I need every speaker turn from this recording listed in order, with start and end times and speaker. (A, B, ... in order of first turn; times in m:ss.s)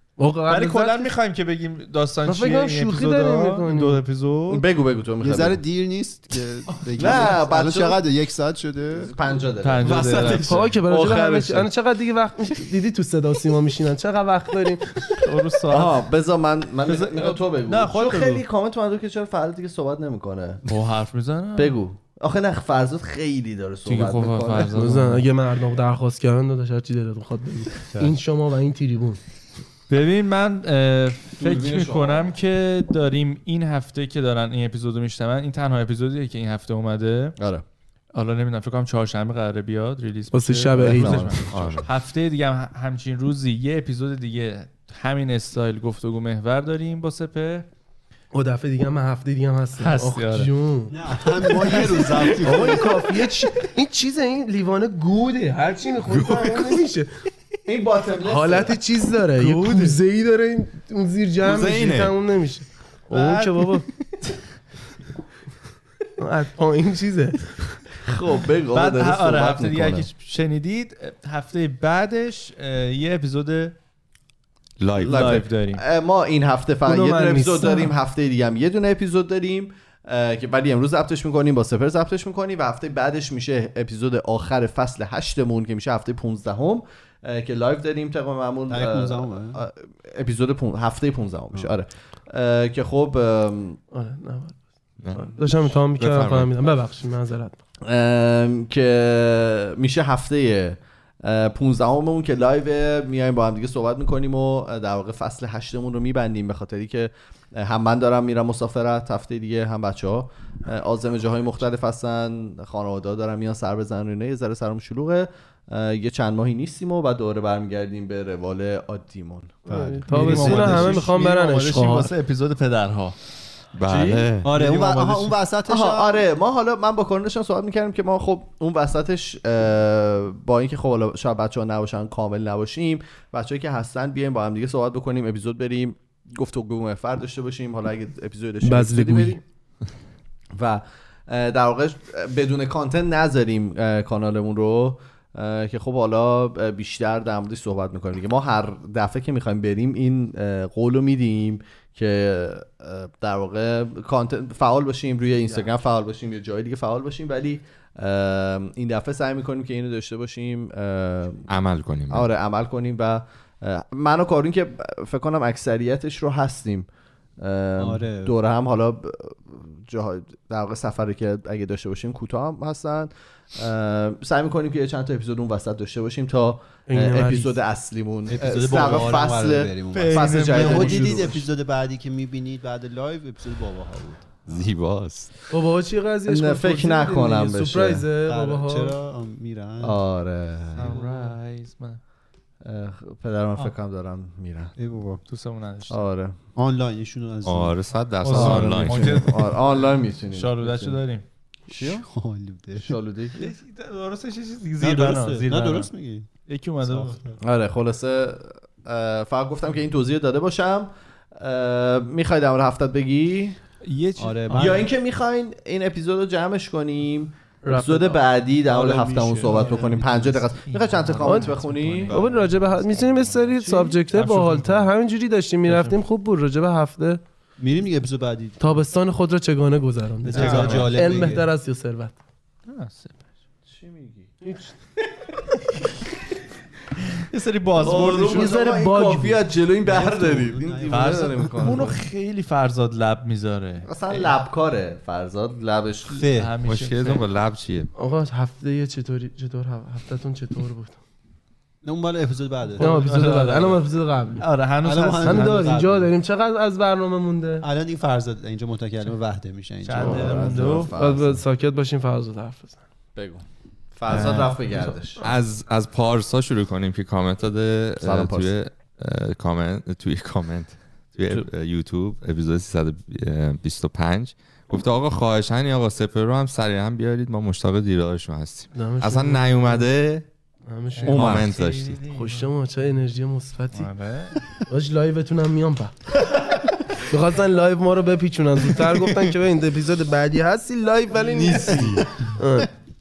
0:00.2-0:01.1 A
0:00.5-0:04.6 B
0:02.3-0:04.0 A
0:04.5-0:05.6 C
0:05.2-0:09.1 D
0:06.7-0:07.3 B
0:07.0-0:08.0 C
0:08.9-0:11.7 C
0:09.6-0:10.7 B
0:09.8-0:10.6 E
0:10.5-0:15.2 A
0:15.2-0:16.0 B
0:15.7-0:20.6 C
0:16.8-0:18.4 B
0:20.7-0:21.8 B
0:21.6-0:24.7 C
0:23.9-0:25.2 B
0:24.8-0:29.2 A
0:29.9-0:37.4 B
0:31.4-0:32.3 C
0:37.4-0:37.6 C
0:38.1-0:47.7 B
0:40.3-0:41.4 A
0:40.8-0:41.8 C
0:41.5-0:41.9 E
0:48.3-0:57.1 A
0:49.8-0:50.5 B
0:50.9-0:52.9 D
0:56.0-0:56.8 E
0:57.7-0:58.8 C
0:58.2-1:03.9 A
0:59.4-1:00.0 B
1:01.4-1:02.2 E
1:03.1-1:03.7 B
1:06.2-1:07.8 A
1:08.0-1:10.1 C
1:08.7-1:13.8 B
1:14.8-1:15.4 E
1:15.0-1:33.8 C
1:15.0-1:15.8 B
1:16.8-1:17.9 A
1:28.7-1:29.6 D
1:33.9-1:34.6 A
1:35.0-1:36.5 E
1:35.1-1:37.6 A
1:37.8-1:59.6 C
1:59.7-2:01.0 D
1:59.7-2:02.1 A
2:00.1-2:03.2 B
2:00.4-2:00.8 C
2:03.8-2:04.5 E
2:03.9-2:04.3 C
2:04.4-2:06.2 D
2:04.4-2:05.4 B
2:05.7-2:19.4 C
2:18.6-2:19.4 A
2:20.6-2:41.5 C
2:41.5-2:42.3 E
2:42.1-2:46.9 C
2:47.4-3:01.5 C
2:47.8-2:48.4 D
2:56.9-2:57.6 A
2:58.3-3:04.4 D
2:59.9-3:01.4 B
3:04.5-3:05.3 E
3:05.5-3:09.0 A
3:06.3-3:08.1 C
3:08.3-3:10.0 D
3:09.8-3:11.1 C
3:10.8-3:12.0 B
3:12.6-3:14.7 C
3:14.8-3:15.2 D
3:15.3-3:16.0 B
3:15.9-3:16.4 C
3:16.6-3:17.8 D
3:17.4-3:19.3 E
3:18.2-3:21.2 B
3:18.3-3:21.0 C
3:21.7-3:22.0 C
3:21.7-3:23.0 D
3:22.8-3:23.4 C
3:23.4-3:25.9 B
3:24.8-3:26.3 D
3:26.5-3:27.3 B
3:26.8-3:27.4 D
3:27.4-3:33.6 C
3:33.8-3:34.9 B
3:34.2-3:34.9 D
3:34.5-3:42.2 C
3:37.6-3:38.2 A
3:38.7-3:40.4 D
3:39.5-3:44.9 B
3:41.2-3:41.6 A
3:42.1-3:42.6 E
3:42.1-3:47.2 A
3:45.7-3:46.0 B
3:47.6-3:48.8 D
3:48.6-3:52.2 A
3:50.2-3:51.5 D
3:50.3-3:51.0 B
3:52.7-3:53.2 B
3:53.7-3:54.3 C
3:54.4-3:54.7 A
3:57.2-3:58.6 B
3:57.8-4:02.0 C
3:58.3-3:59.4 A
3:59.8-4:01.8 D
4:00.9-4:04.3 B
4:03.9-4:06.2 C
4:06.1-4:06.5 D
4:06.3-4:07.3 B
4:06.6-4:07.9 E
4:08.0-4:11.0 A
4:11.8-4:13.1 D
4:12.8-4:13.8 B
4:12.8-4:14.4 A
4:14.4-4:16.0 B
4:14.8-4:16.0 D
4:15.2-4:17.7 A
4:17.6-4:20.8 D
4:19.8-4:20.9 B
4:20.0-4:21.4 C
4:20.9-4:22.8 A
4:23.2-4:25.2 C
4:24.1-4:25.0 B
4:25.2-4:40.3 E
4:28.0-4:28.5 C
4:38.7-4:39.9 A
4:40.7-4:41.5 A
4:41.0-4:42.5 B
4:41.0-4:42.0 E
4:42.0-4:43.9 A
4:43.7-4:44.4 B
4:44.7-4:45.9 A
4:47.0-4:52.7 A
4:51.2-4:52.2 E